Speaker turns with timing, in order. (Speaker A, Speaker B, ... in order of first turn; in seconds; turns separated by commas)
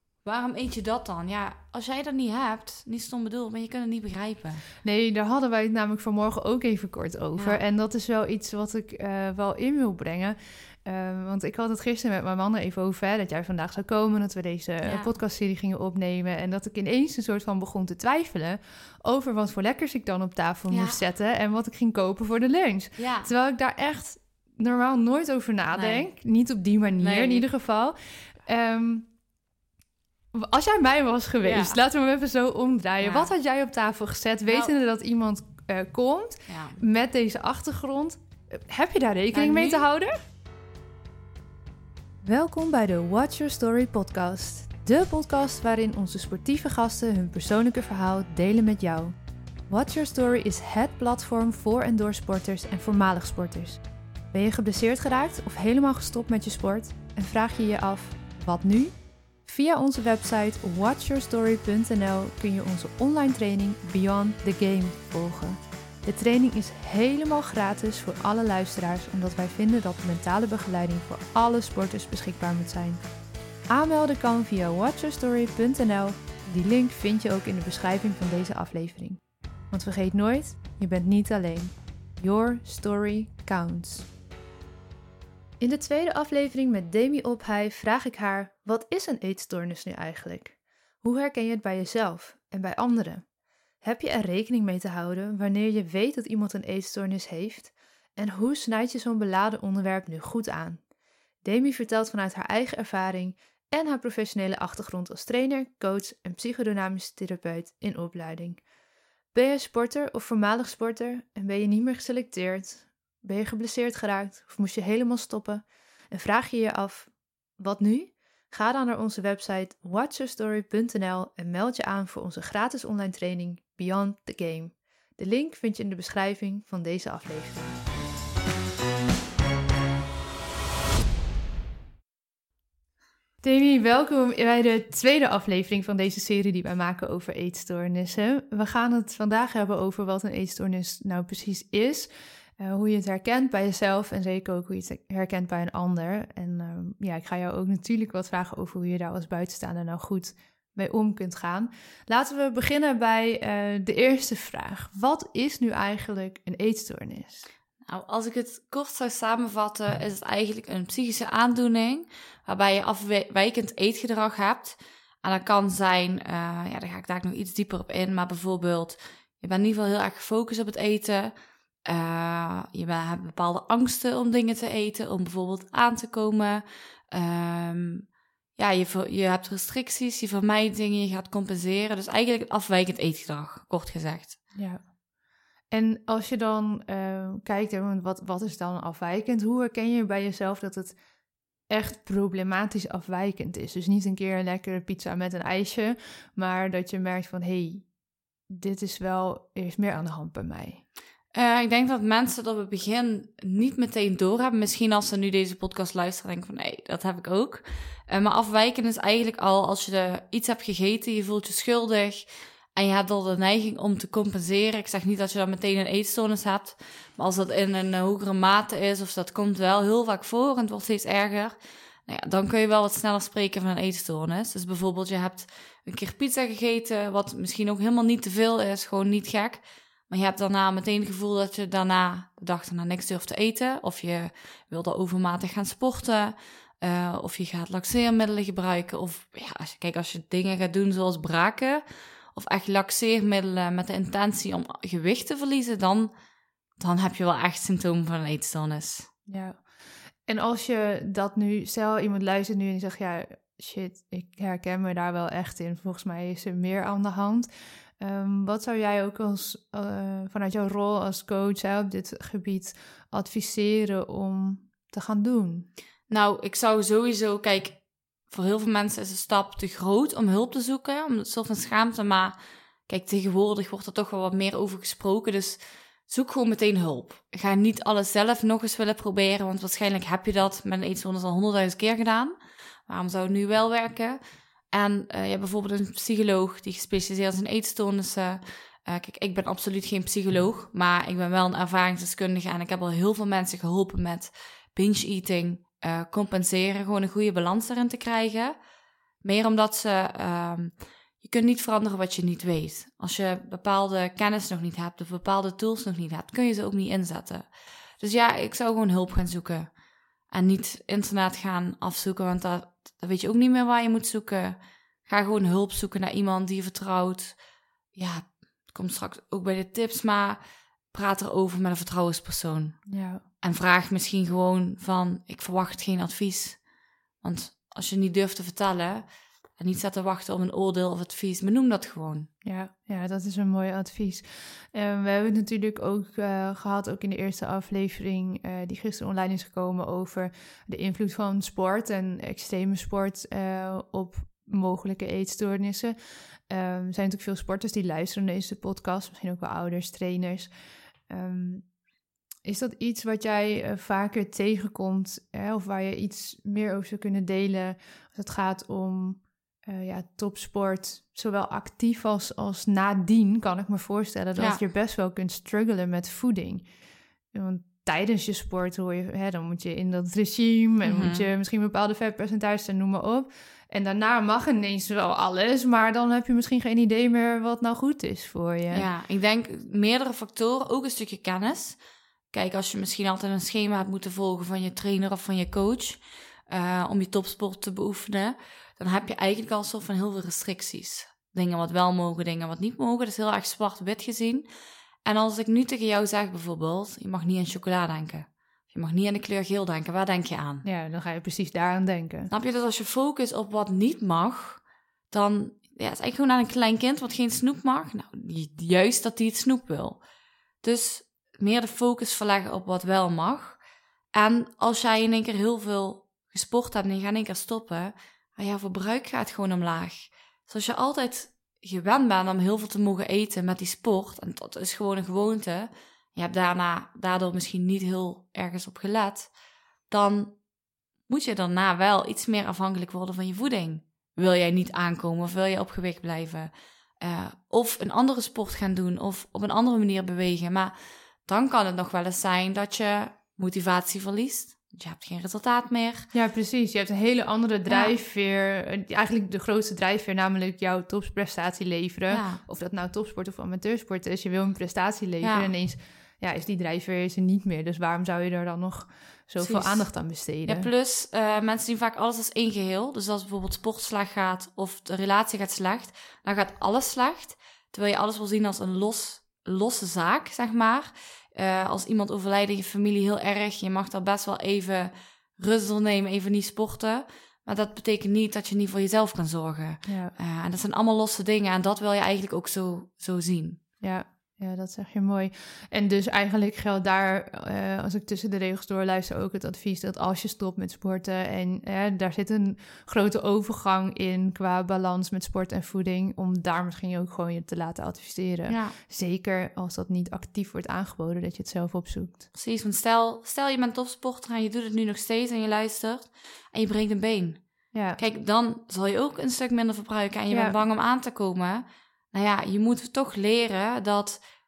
Speaker A: 0.2-4.7, Speaker B: 4.8-29.1, Speaker A: 7.4-7.6, Speaker A: 14.8-15.1, Speaker A: 20.7-21.0, Speaker A: 23.0-23.3, Speaker A: 25.7-26.1, Speaker A: 27.0-27.5, Speaker B: 30.3-40.1, Speaker A: 31.4-31.8, Speaker A: 33.0-33.3, Speaker A: 36.5-36.8, Speaker A: 39.3-39.9, Speaker B: 42.2-49.2, Speaker B: 49.7-53.8, Speaker B: 54.3-58.9, Speaker B: 59.5-73.0, Speaker B: 73.7-84.1, Speaker B: 85.6-93.2, Speaker B: 93.8-100.8, Speaker B: 101.4-108.6, Speaker B: 109.3-127.8, Speaker B: 133.4-157.5, Speaker A: 157.9-171.3, Speaker A: 171.9-184.4, Speaker B: 184.6-184.8, Speaker B: 185.7-191.0, Speaker B: 191.7-197.9, Speaker B: 198.5-200.8, Speaker A: 201.3-246.1, Speaker A: 246.8-249.1, Speaker B: 249.3-249.6, Speaker B: 250.3-257.5, Speaker B: 258.0-265.7, Speaker A: 266.1-272.4, Speaker A: 272.9-282.4, Speaker A: 282.9-284.2, Speaker A: 284.7-298.6, Speaker A: 299.2-307.5, Speaker A: 308.0-309.7, Speaker A: 310.3-317.4, Speaker A: 317.9-320.4, Speaker A: 320.9-322.8, Speaker B: 322.9-323.2, Speaker A: 323.4-326.6, Speaker A: 327.2-329.1, Speaker A: 329.6-332.3, Speaker B: 332.4-345.9, Speaker B: 346.5-350.5, Speaker B: 351.1-351.7, Speaker B: 352.4-366.7, Speaker A: 364.4-364.6, Speaker B: 367.3-378.9, Speaker A: 370.8-371.3, Speaker A: 378.7-381.8, Speaker A: 382.3-394.5, Speaker A: 395.1-400.7, Speaker B: 400.6-402.3, Speaker A: 402.3-410.0, Speaker A: 410.6-413.6, Speaker A: 414.1-429.3, Speaker A: 429.9-430.4, Speaker A: 431.1-440.7, Speaker A: 441.3-446.1, Speaker B: 446.1-460.7, Speaker A: 447.7-447.9, Speaker A: 452.1-452.4, Speaker A: 455.2-455.5, Speaker A: 459.4-483.6, Speaker B: 479.9-480.1, Speaker B: 483.8-502.3, Speaker A: 498.5-498.8, Speaker A: 502.3-514.2, Speaker B: 507.7-508.0, Speaker B: 510.3-510.6